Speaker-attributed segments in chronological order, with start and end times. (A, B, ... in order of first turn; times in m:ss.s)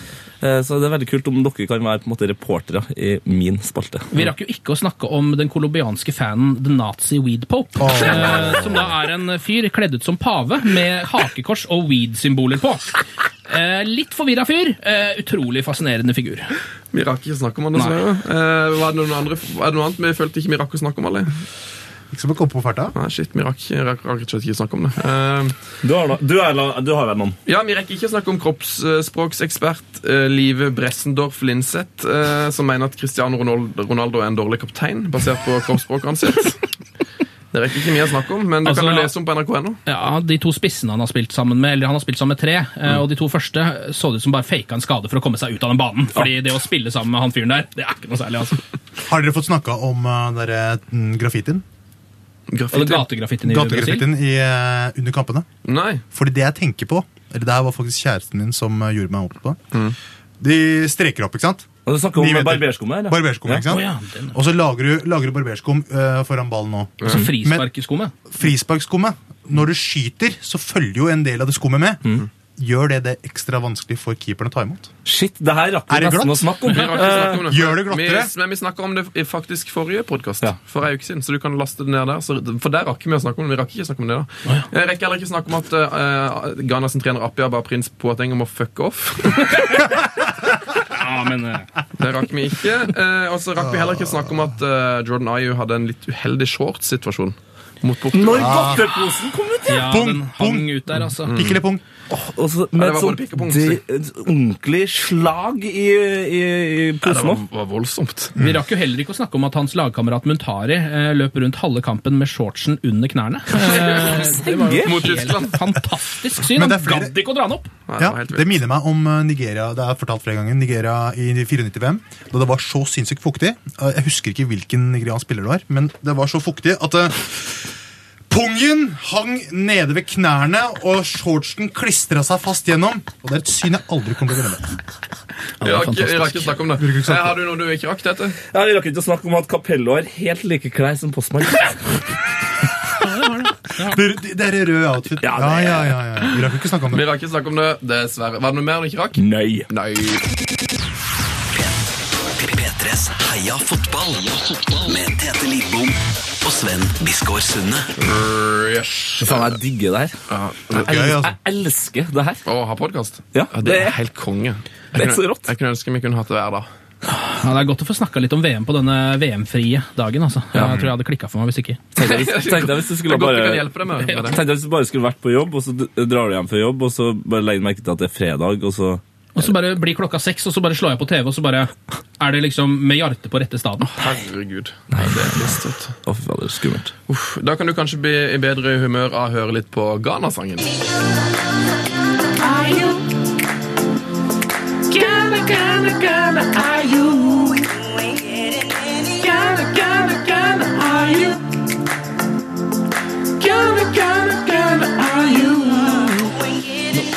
0:00.4-0:04.1 A
0:04.1-0:12.9 B
0:07.8-0:08.9 C
0:13.5-0:16.5 B
0:16.9-0:21.3 D
0:22.1-0:22.9 C
0:22.9-0:25.6 D
0:25.8-0:27.4 A
0:27.4-0:36.6 D
0:37.5-0:39.8 D
0:38.6-0:39.1 B
0:39.9-0:48.6 B
0:49.1-0:51.6 C
0:52.5-0:53.1 D
0:52.7-0:54.1 B
0:53.4-0:55.5 C
0:55.6-0:56.0 D
0:56.1-0:59.6 C
1:00.4-1:07.7 C
1:01.9-1:03.6 A
1:03.7-1:04.3 B
1:07.0-1:08.1 B
1:08.3-1:14.9 C
1:15.0-1:17.5 A
1:15.9-1:18.3 C
1:16.7-1:29.8 D
1:31.0-1:31.6 B
1:32.0-1:38.8 D
1:38.1-1:40.0 A
1:38.3-1:38.9 C
1:39.7-1:41.3 B
1:39.8-1:41.8 C
1:41.2-1:41.6 D
1:42.1-1:47.4 A
1:42.8-1:43.8 D
1:47.0-1:48.3 D
1:48.4-1:48.6 C
1:48.4-1:57.7 B
1:53.7-1:55.6 D
1:54.6-1:55.0 A
1:56.4-1:57.2 C
1:57.9-1:58.5 D
1:58.0-2:07.7 C
2:08.3-2:14.7 C
2:15.6-2:18.4 D
2:15.6-2:16.4 B
2:15.6-2:17.4 C
2:18.5-2:22.0 A
2:23.0-2:24.0 B
2:23.8-2:27.0 C
2:25.2-2:26.0 A
2:26.9-2:30.2 D
2:29.2-2:29.7 A
2:31.5-2:31.8 E
2:32.3-2:37.9 E
2:38.0-2:39.6 D
2:39.2-2:40.1 A
2:40.3-2:40.9 D
2:40.7-2:42.4 A
2:40.7-2:41.4 C
2:42.4-2:46.7 D
2:43.3-2:44.0 A
2:44.9-2:45.5 A
2:47.1-2:51.8 B
2:50.5-2:50.9 A
2:51.9-2:59.5 A
2:52.0-2:54.4 D
2:59.3-3:03.9 B
3:03.9-3:05.9 D
3:04.9-3:06.9 A
3:07.1-3:10.7 D
3:12.4-3:13.0 B
3:14.9-3:17.6 B
3:19.2-3:21.4 B
3:23.4-3:26.2 B